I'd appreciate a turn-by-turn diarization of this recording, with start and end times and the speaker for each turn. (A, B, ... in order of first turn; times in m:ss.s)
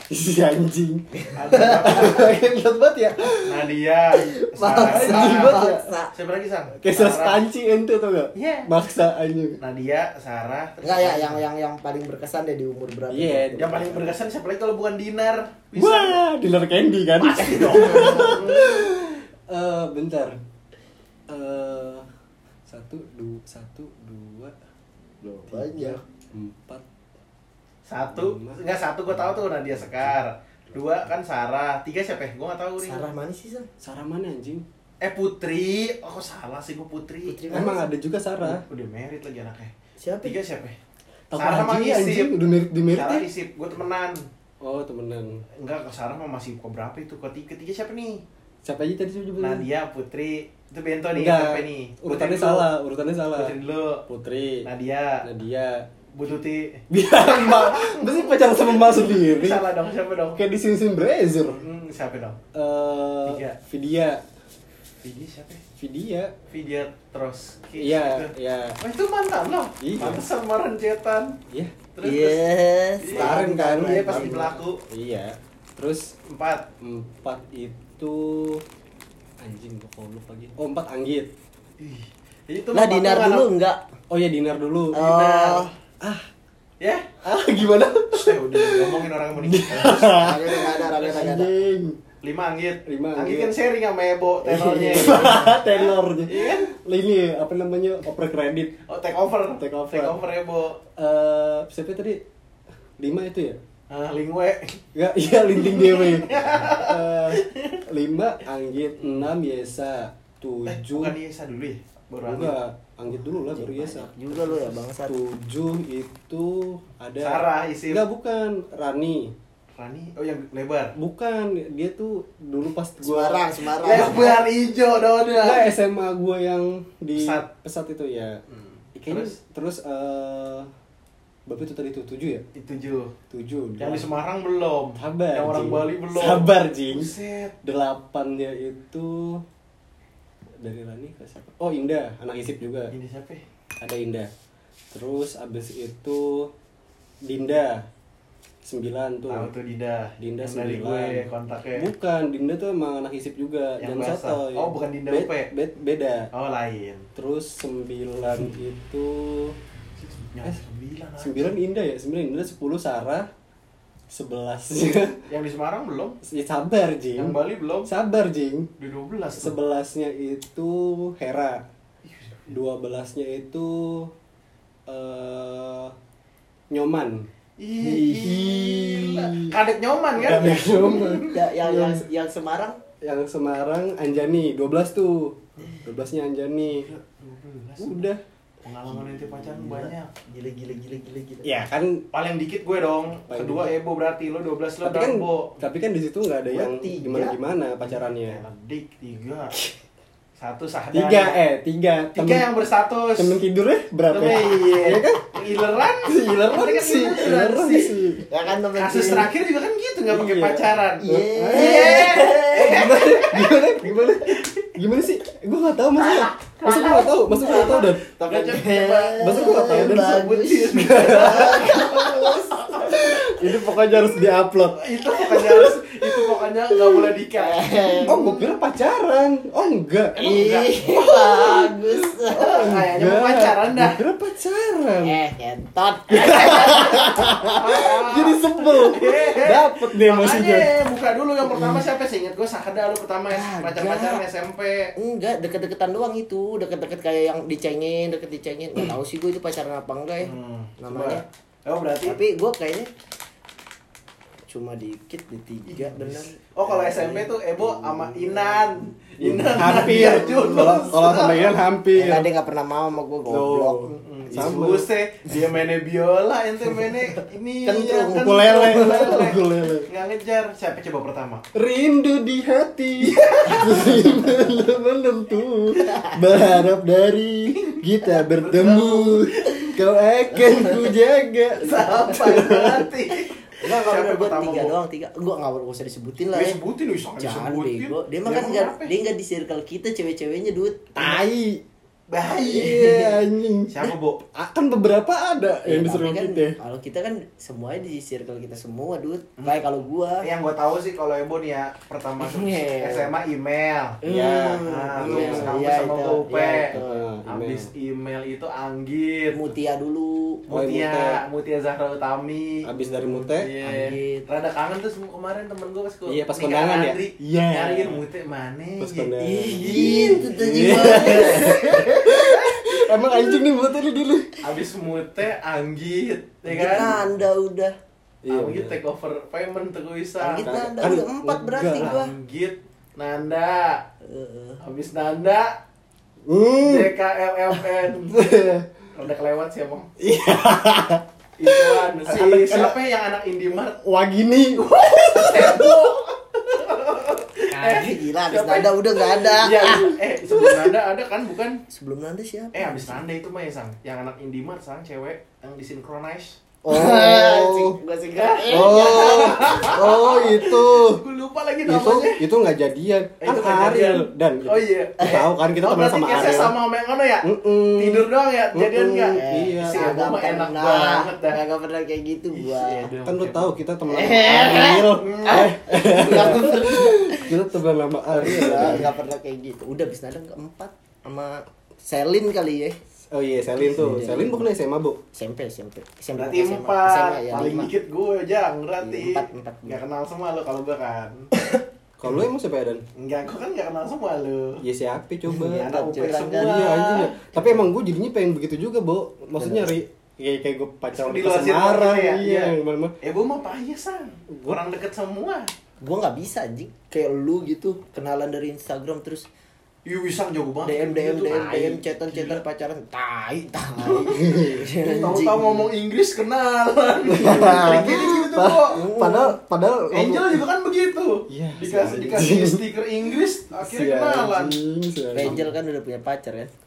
0:00.1-0:03.7 A
0:01.2-0:02.0 B
0:01.3-0:02.4 C
0:03.4-0:07.4 C
0:04.2-0:06.1 B
0:04.7-0:05.9 A
0:06.8-0:09.6 A
0:08.4-0:08.7 C
0:09.6-0:11.4 C
0:10.8-0:14.0 B
0:13.1-0:14.1 A
0:13.6-0:16.2 C
0:15.7-0:20.4 A
0:17.2-0:18.9 C
0:17.7-0:18.4 B
0:21.3-0:22.0 A
0:22.7-0:24.5 A
0:25.2-0:26.0 B
0:25.5-0:26.8 A
0:27.9-0:33.0 C
0:28.1-0:30.2 A
0:32.8-0:33.7 B
0:33.8-0:34.6 A
0:35.0-0:37.6 C
0:37.2-0:37.8 B
0:37.5-0:38.6 A
0:38.4-0:39.7 C
0:40.0-0:40.4 B
0:40.2-0:40.8 C
0:41.3-0:43.3 A
0:41.4-0:42.3 C
0:42.9-0:44.3 C
0:44.6-0:45.4 A
0:45.6-0:48.2 C
0:48.6-0:49.7 A
0:49.4-0:52.7 C
0:51.1-0:54.7 A
0:53.4-0:54.0 C
0:54.6-0:55.2 C
0:55.2-0:55.9 A
0:56.1-1:00.4 C
0:56.9-0:59.6 A
1:00.4-1:01.6 A
1:01.4-1:02.4 C
1:02.5-1:04.2 A
1:03.2-1:03.6 C
1:05.0-1:05.6 C
1:05.8-1:06.3 A
1:06.5-1:11.4 C
1:07.8-1:08.8 A
1:09.8-1:10.2 A
1:11.5-1:11.7 A
1:11.9-1:12.4 C
1:12.0-1:14.6 B
1:13.0-1:14.8 C
1:13.1-1:16.1 A
1:16.2-1:16.7 C
1:16.8-1:18.6 A
1:19.4-1:21.3 A
1:21.8-1:23.5 C
1:22.7-1:23.8 B
1:24.1-1:25.0 A
1:24.9-1:25.7 B
1:24.9-1:25.7 C
1:26.0-1:26.3 A
1:26.8-1:27.1 C
1:27.2-1:32.0 A
1:28.1-1:30.2 C
1:30.1-1:31.5 B
1:31.0-1:31.3 C
1:32.2-1:36.7 C
1:32.9-1:33.5 A
1:34.4-1:35.6 B
1:34.7-1:38.8 A
1:38.9-1:40.8 C
1:39.5-1:40.2 A
1:40.9-1:42.2 A
1:43.0-1:43.6 A
1:43.9-1:44.8 C
1:44.9-1:51.2 A
1:45.5-1:47.8 C
1:50.7-1:52.6 C
1:52.2-1:59.3 A
1:53.1-1:55.1 B
1:57.2-1:58.0 C
1:59.7-2:00.9 C
2:01.0-2:04.3 A
2:03.0-2:04.4 B
2:03.8-2:05.7 C
2:05.3-2:08.4 A
2:07.2-2:07.4 C
2:08.5-2:09.4 C
2:08.9-2:10.7 A
2:11.5-2:12.4 A
2:12.5-2:13.1 C
2:13.3-2:14.1 A
2:13.8-2:17.5 C
2:15.0-2:19.4 A
2:20.6-2:22.9 A
2:22.9-2:23.4 C
2:23.8-2:24.3 A
2:24.9-2:26.5 A
2:27.2-2:27.9 A
2:28.6-2:29.5 A
2:29.3-2:31.9 C
2:30.2-2:36.3 A
2:33.8-2:35.5 C
2:36.3-2:37.1 C
2:37.2-2:39.6 A
2:40.0-2:41.5 C
2:41.2-2:43.3 A
2:44.1-2:45.2 A
2:45.3-2:46.2 C
2:46.2-2:48.7 A
2:47.1-2:47.9 C
2:48.8-2:49.6 C
2:49.4-2:51.6 A
2:52.0-2:52.5 C
2:52.5-2:54.1 A
2:54.9-2:55.9 A
2:56.7-2:57.3 A
2:57.6-3:01.4 C
2:57.8-2:59.6 A
3:00.1-3:02.0 A
3:01.2-3:02.8 B
3:03.0-3:06.9 A
3:06.6-3:08.1 C
3:07.8-3:08.2 A
3:08.6-3:10.1 C
3:09.5-3:11.5 B
3:11.4-3:12.0 A
3:12.1-3:15.6 C
3:13.3-3:13.7 A
3:14.8-3:18.4 A
3:16.5-3:17.4 B
3:17.8-3:19.6 C
3:20.4-3:21.4 C
3:20.9-3:22.5 A
3:22.1-3:23.4 C
3:23.2-3:25.2 A
3:24.1-3:28.0 C
3:26.0-3:28.2 A
3:28.3-3:29.3 B
3:28.8-3:33.5 C
3:30.1-3:38.0 A
3:31.0-3:32.8 B
3:34.3-3:34.7 C
3:36.0-3:43.0 B
3:37.4-3:43.1 C
3:39.2-3:42.2 A
3:42.8-3:46.2 A
3:43.8-3:48.4 C
3:47.3-3:48.3 B
3:48.0-3:50.2 A
3:50.1-3:51.6 C
3:50.2-3:52.7 B
3:52.1-3:55.2 A
3:52.3-3:54.0 C
3:55.0-3:57.5 B
3:56.1-4:00.7 A
3:56.2-3:56.9 C
3:57.5-4:04.9 C
4:03.3-4:04.2 B
4:05.0-4:11.2 B
4:10.2-4:12.2 C
4:12.0-4:12.9 B
4:14.5-4:20.2 B
4:15.7-4:21.5 C
4:19.2-4:22.3 A
4:21.9-4:24.6 B
4:23.3-4:24.9 A
4:23.9-4:31.4 C
4:27.6-4:29.2 B
4:28.1-4:29.9 A
4:31.5-4:42.9 A
4:33.0-4:34.0 C
4:33.5-4:34.6 B
4:35.8-4:36.1 B
4:37.5-4:39.8 C
4:40.5-4:40.8 B
4:41.6-4:44.7 C
4:43.1-4:46.6 B
4:46.3-4:48.9 C
4:47.2-4:51.2 B
4:51.0-4:51.6 A
4:52.1-4:53.2 C
4:52.3-4:56.6 A
4:53.7-4:54.2 C
4:55.6-5:00.3 B
4:59.4-4:59.6 C
5:00.2-5:04.0 C
5:02.2-5:03.1 B
5:04.0-5:07.0 B
5:04.0-5:05.9 A
5:04.6-5:09.4 C
5:06.7-5:07.7 A
5:09.3-5:10.4 B
5:10.5-5:21.5 C
5:10.5-5:11.2 A
5:12.6-5:13.5 A
5:13.6-5:14.2 B
5:16.0-5:18.0 A
5:18.8-5:24.4 A
5:19.2-5:23.4 B
5:24.4-5:26.9 C
5:26.5-5:27.8 B
5:26.7-5:27.0 A
5:28.2-5:28.8 A
5:28.3-5:30.5 C
5:30.2-5:32.1 B
5:30.4-5:31.9 A
5:31.7-5:33.8 C
5:34.0-5:34.6 B
5:34.6-5:35.6 C
5:36.2-5:36.9 A
5:36.6-5:38.3 C
5:37.5-5:38.7 A
5:38.9-5:39.9 C
5:40.0-5:42.8 A
5:41.4-5:43.8 C
5:43.8-5:45.8 A
5:44.5-5:51.6 C
5:47.5-5:50.7 B
5:51.7-5:53.0 B
5:52.5-5:56.4 C
5:56.6-5:57.8 A
5:56.7-6:00.4 B
5:58.2-6:02.2 C
5:58.5-6:01.0 A
6:01.6-6:06.6 A
6:03.2-6:11.4 C
6:07.2-6:09.9 A
6:09.1-6:12.9 B
6:12.3-6:13.6 C
6:13.0-6:18.9 A
6:13.9-6:17.4 B
6:14.9-6:16.6 C
6:18.1-6:22.8 B
6:23.1-6:25.0 A
6:23.6-6:24.5 B
6:25.1-6:27.7 B
6:26.1-6:31.3 C
6:28.8-6:29.8 B
6:32.0-6:32.8 A
6:32.9-6:34.6 C
6:34.6-6:35.7 A
6:35.3-6:37.0 B
6:35.4-6:37.4 C
6:36.4-6:42.9 A
6:40.9-6:45.5 C
6:45.8-6:49.3 B
6:49.8-6:52.4 C
6:50.6-6:55.6 B
6:53.8-6:54.3 C
6:54.2-6:54.6 A
6:54.8-6:58.8 C
6:57.1-7:00.4 A
6:58.7-6:59.4 B
6:59.9-7:04.6 C
7:01.3-7:02.6 A
7:03.6-7:05.5 A
7:05.1-7:06.5 B